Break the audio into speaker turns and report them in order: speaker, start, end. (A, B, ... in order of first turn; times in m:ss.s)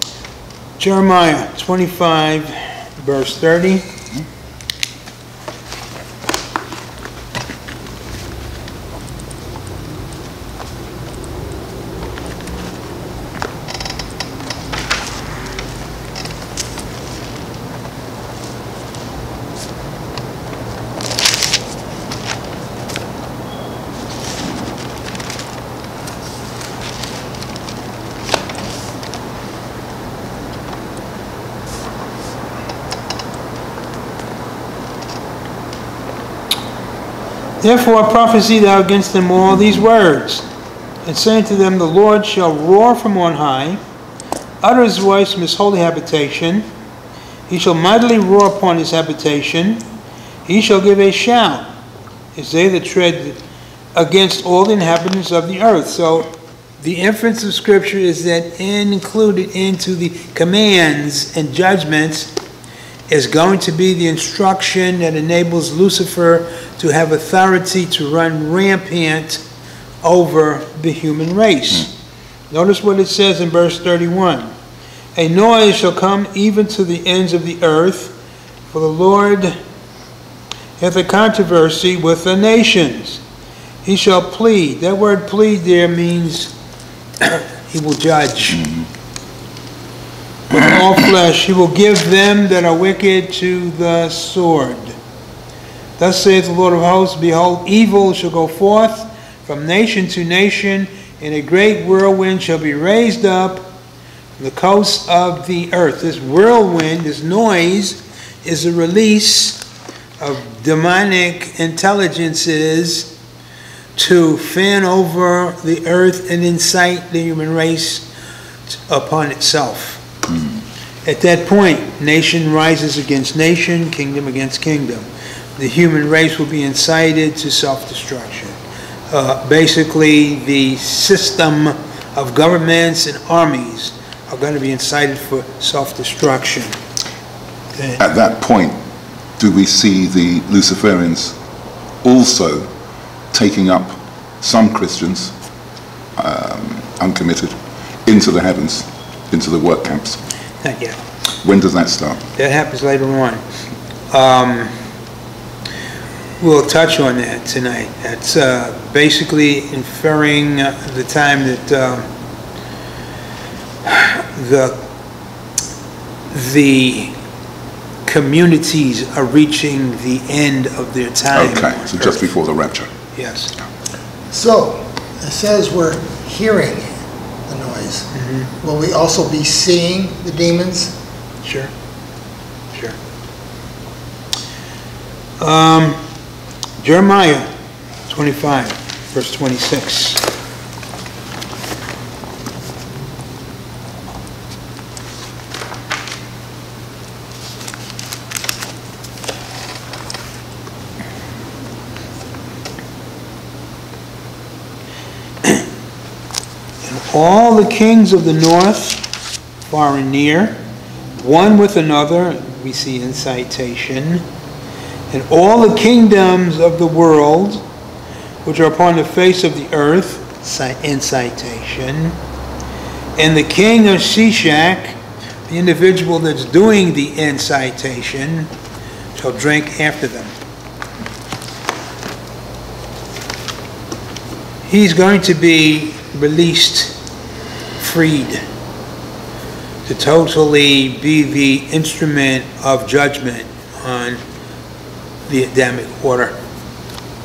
0:00.8-0:03.9 A
0:37.6-0:40.5 A
0:41.0-0:43.8 A
0:44.6-0:46.7 A
0:47.5-0:49.9 A
0:50.5-0:51.7 A
0:52.4-0:53.4 A
0:54.0-1:02.3 A
1:03.1-1:09.4 A
1:10.0-1:11.9 A
1:12.5-1:14.5 A
1:15.2-1:18.2 A
1:18.7-1:19.6 A
1:20.8-1:23.2 A
1:23.8-1:26.5 A
1:27.2-1:28.7 A
1:30.5-1:35.0 A
1:36.0-1:43.7 A
1:44.4-1:49.6 A
1:50.2-1:53.1 A
1:54.0-1:58.1 A
1:58.7-2:00.0 A
2:01.0-2:08.6 A
2:09.1-2:16.8 A
2:17.8-2:18.0 A
2:18.0-2:18.8 B
2:19.4-2:21.4 B
2:22.0-2:22.7 B
2:23.3-2:25.3 B
2:26.2-2:30.2 B
2:30.6-2:31.0 A
2:31.4-2:32.2 B
2:32.4-2:33.4 A
2:34.1-2:34.7 A
2:36.4-2:42.1 A
2:43.8-2:44.8 A
2:46.3-2:47.2 A
2:48.1-2:52.3 A
2:51.3-2:52.9 B
2:53.1-2:53.5 A
2:54.3-2:58.1 C
2:58.1-2:58.5 A
2:58.6-3:01.0 C
3:01.4-3:01.7 A
3:05.4-3:06.0 A
3:06.8-3:07.5 A
3:08.1-3:10.2 A
3:26.8-3:29.0 A
3:29.7-3:30.6 A
3:31.2-3:34.2 A
3:35.1-3:37.6 A
3:38.4-3:42.2 A
3:43.2-3:48.5 A
3:49.2-3:50.3 A
3:54.7-3:57.0 A
3:57.8-3:58.4 A
3:59.9-4:04.2 A
4:05.3-4:06.4 A